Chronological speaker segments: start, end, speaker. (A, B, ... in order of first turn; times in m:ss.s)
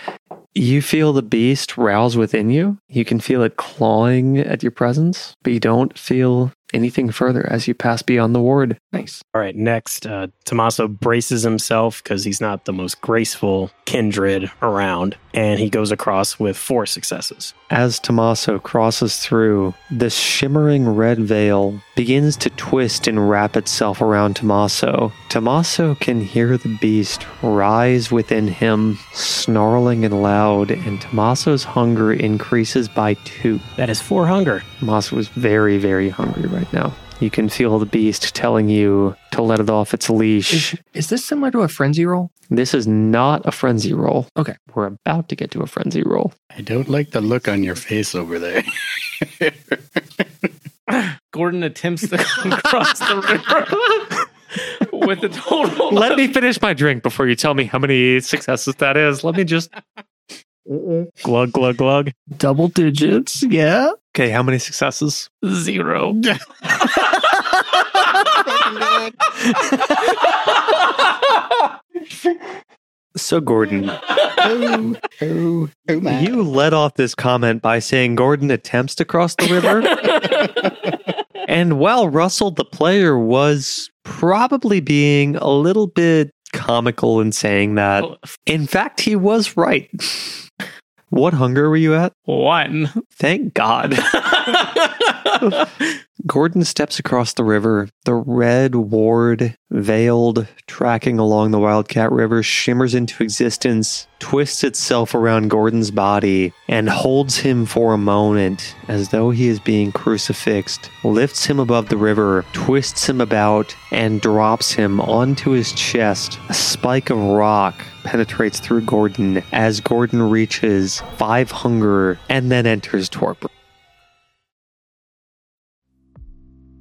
0:00.6-0:08.8 A
0:08.9-0:09.2 B
0:09.4-0:17.5 C
0:17.7-0:33.6 A
0:33.8-0:34.6 C
0:34.8-0:40.8 A
0:40.5-0:42.3 B
0:42.5-0:46.3 A
0:46.5-0:50.2 D
0:50.9-0:56.2 E
0:55.9-0:59.7 A
1:00.7-1:01.1 A
1:01.2-1:02.1 C
1:02.4-1:04.0 B
1:04.1-1:05.3 A
1:05.4-1:06.2 E
1:08.3-1:09.3 D
1:13.2-1:14.2 A
1:14.3-1:16.4 D
1:16.1-1:20.7 A
1:21.4-1:30.4 A
1:28.0-1:28.3 E
1:31.1-1:32.1 A
1:32.3-1:33.0 E
1:33.2-1:34.6 A
1:34.3-1:35.6 E
1:36.2-2:03.5 A